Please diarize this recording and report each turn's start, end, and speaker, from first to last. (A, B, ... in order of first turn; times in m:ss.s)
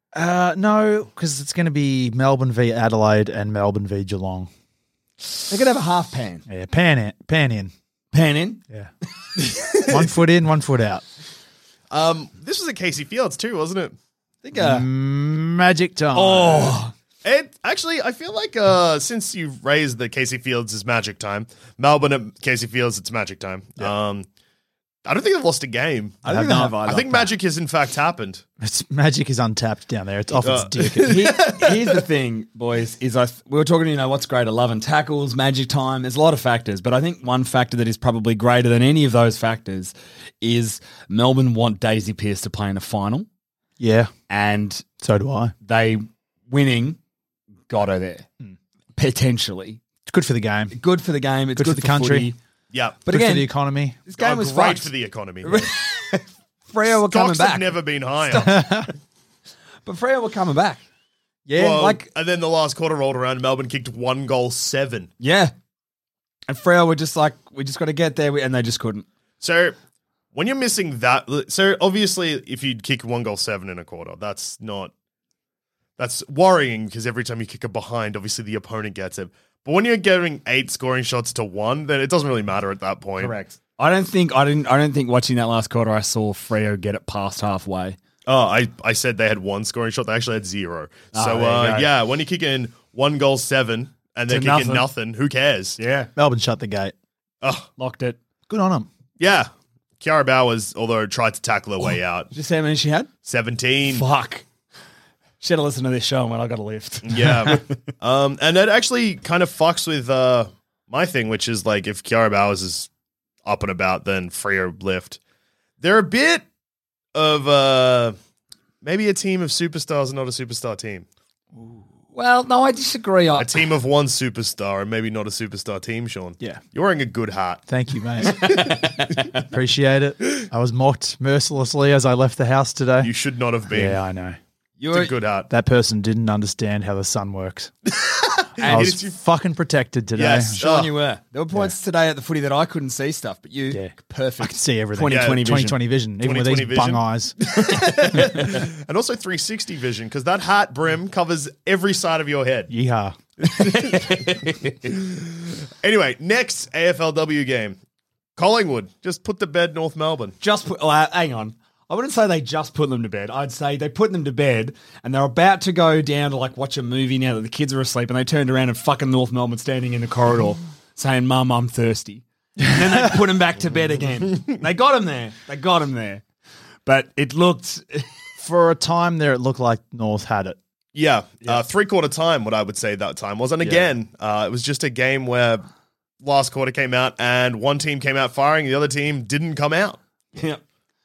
0:00.1-0:04.5 A
0:05.5-0:06.4 B
0:06.5-0:07.7 A
0:08.1-0:08.6 B
0:09.4-0:10.1 C
0:09.8-0:11.0 A
0:11.9-0:13.9 C
0:14.4-0:14.9 B
0:14.5-0:16.8 A
0:16.1-0:16.9 B
0:17.2-0:24.2 C
0:25.0-0:26.3 C
0:26.2-0:26.8 B
0:26.2-0:27.3 A
0:26.8-0:28.4 C
0:28.6-0:31.2 A
0:30.4-0:32.0 C
0:31.1-0:43.3 B
0:43.8-0:44.1 A
0:44.3-0:44.8 B
0:45.0-0:45.5 A
0:45.6-0:47.0 B
0:47.7-0:48.2 B
0:49.0-0:49.8 B
0:50.1-0:50.7 A
0:50.7-0:52.4 B
0:51.5-0:52.3 A
0:52.7-0:53.0 C
0:53.0-0:53.5 B
0:53.1-0:54.0 A
0:54.1-0:54.9 B
0:54.1-0:55.7 C
0:55.4-0:58.9 B
0:56.9-0:58.6 C
0:58.3-0:58.9 A
0:59.8-1:00.8 B
1:01.4-1:01.9 A
1:01.5-1:05.1 C
1:01.6-1:02.1 B
1:05.2-1:05.5 B
1:06.5-1:09.0 B
1:09.4-1:09.8 C
1:10.3-1:14.9 C
1:16.0-1:23.4 C
1:23.2-1:28.0 B
1:28.2-1:35.8 C
1:31.1-1:31.9 B
1:34.3-1:34.9 B
1:35.8-1:36.1 B
1:36.2-1:36.9 A
1:37.4-1:37.7 C
1:37.8-1:38.2 B
1:38.5-1:38.9 A
1:39.2-1:39.5 C
1:40.0-1:42.3 C
1:42.3-1:43.1 B
1:43.2-1:44.0 C
1:43.9-1:44.4 B
1:45.4-1:47.8 B
1:47.0-1:52.9 C
1:47.2-1:47.6 A
1:53.4-1:55.2 C
1:55.8-1:56.4 C
1:57.1-1:58.1 C
1:58.8-2:01.0 C
2:01.5-2:01.9 A
2:02.1-2:03.6 B
2:03.4-2:07.6 C
2:07.7-2:08.8 A
2:08.2-2:08.8 C
2:08.3-2:09.4 B
2:09.4-2:13.1 A
2:13.0-2:14.0 C
2:13.7-2:14.4 A
2:14.8-2:15.1 B
2:14.9-2:15.5 C
2:15.5-2:17.7 A
2:17.9-2:19.2 C
2:18.6-2:19.0 B
2:18.6-2:20.6 A
2:20.2-2:20.9 C
2:20.6-2:25.8 B
2:23.7-2:27.4 A
2:25.1-2:25.5 C
2:26.2-2:32.7 C
2:27.8-2:28.2 B
2:28.2-2:28.5 A
2:32.7-2:33.2 A
2:33.4-2:34.8 B
2:33.5-2:37.8 C
2:38.4-2:40.4 C
2:40.4-2:56.2 B
2:52.8-2:53.1 A
2:56.8-2:58.1 B
2:58.4-3:00.6 A
3:00.9-3:05.6 C
3:06.2-3:10.0 C
3:10.3-3:10.6 B